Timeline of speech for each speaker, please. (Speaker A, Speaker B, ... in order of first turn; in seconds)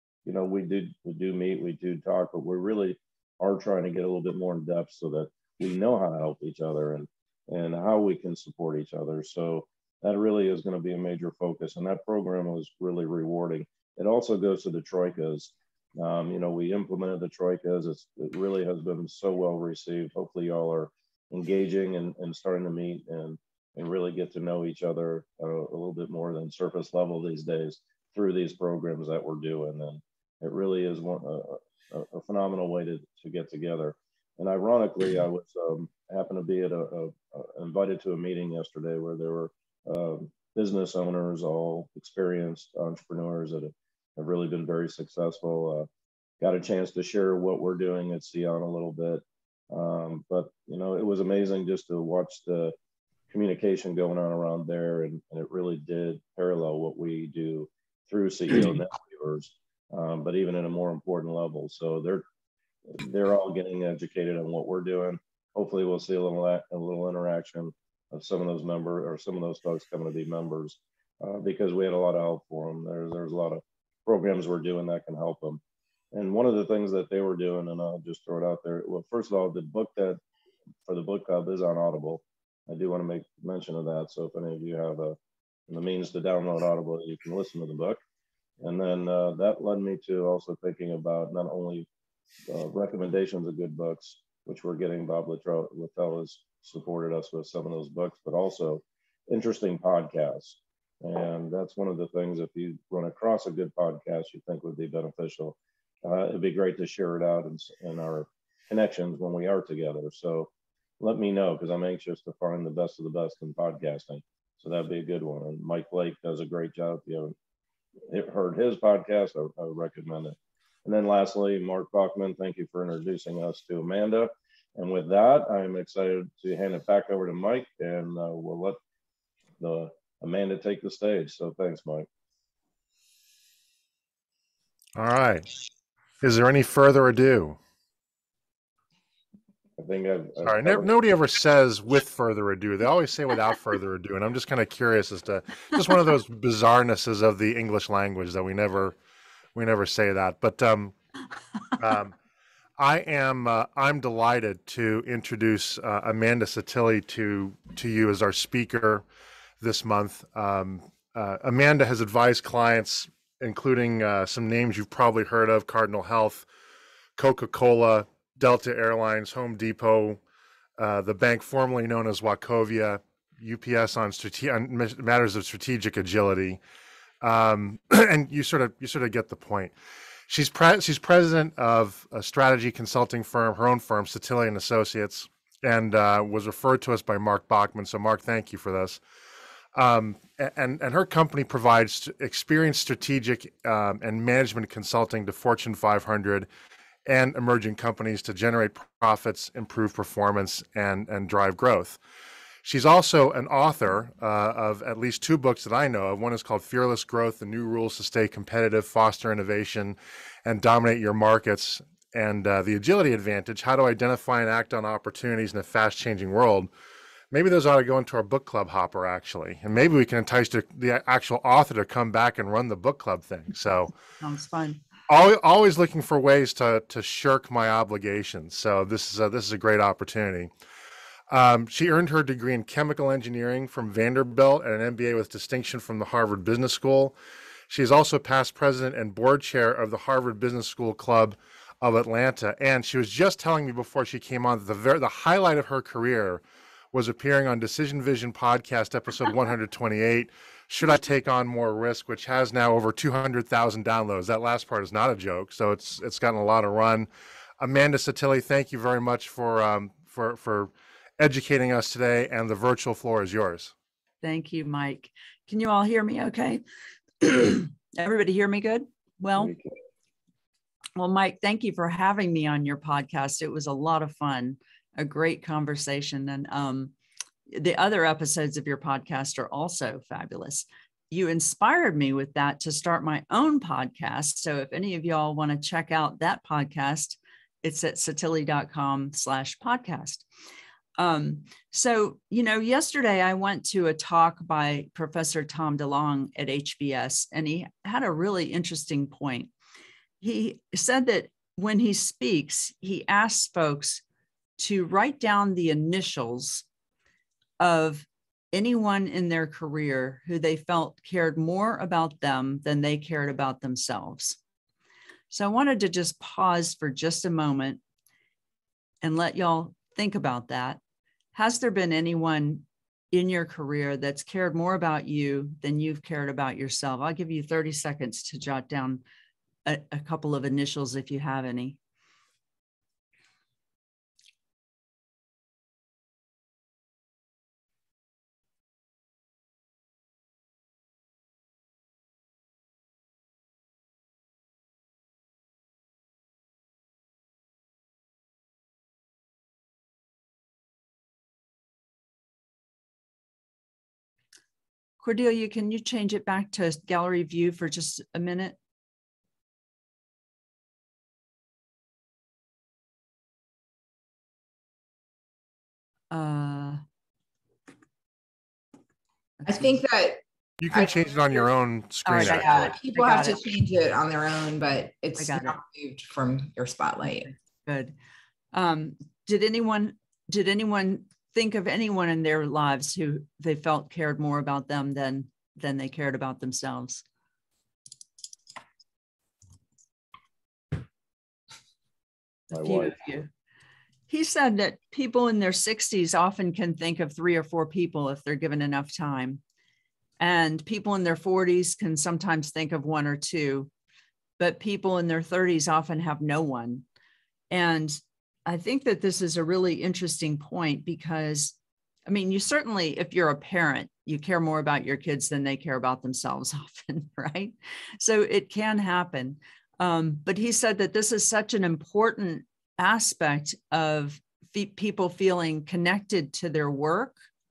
Speaker A: 0.2-45.9, 46.4-52.7, 53.3-62.2, 62.9-75.6, 76.1-80.2, 80.9-85.2, 85.7-88.0, 88.6-91.9, 92.5-117.3, 118.1-128.8, 129.6-132.1, 139.8-140.9, 269.4-269.7, 392.5-392.9
Speaker B: 134.9-135.5, 136.2-137.6, 140.4-148.9, 149.5-150.9, 151.8-152.1, 152.8-159.0, 159.6-166.5, 167.2-170.2, 170.8-176.6, 177.2-179.7, 180.3-189.0, 189.7-196.5, 197.1-202.0, 202.6-216.7, 217.3-223.9, 225.1-230.5, 231.3-237.1, 237.7-246.4, 246.9-257.1, 257.6-263.7, 370.6-372.7
Speaker C: 224.2-224.8, 264.2-266.6, 267.2-269.5, 270.9-276.9, 277.5-290.2, 291.0-299.5, 300.2-304.0, 304.6-306.6, 307.6-314.4, 315.3-317.8, 319.0-320.8, 321.3-329.0, 329.6-331.8, 355.0-358.6, 366.1-366.8, 369.4-369.7, 372.0-373.4, 375.2-375.6, 377.2-377.9, 378.5-387.0, 392.5-393.3, 394.1-399.4, 400.2-403.7, 404.4-406.8, 407.5-427.2
Speaker D: 369.4-371.4, 372.2-377.3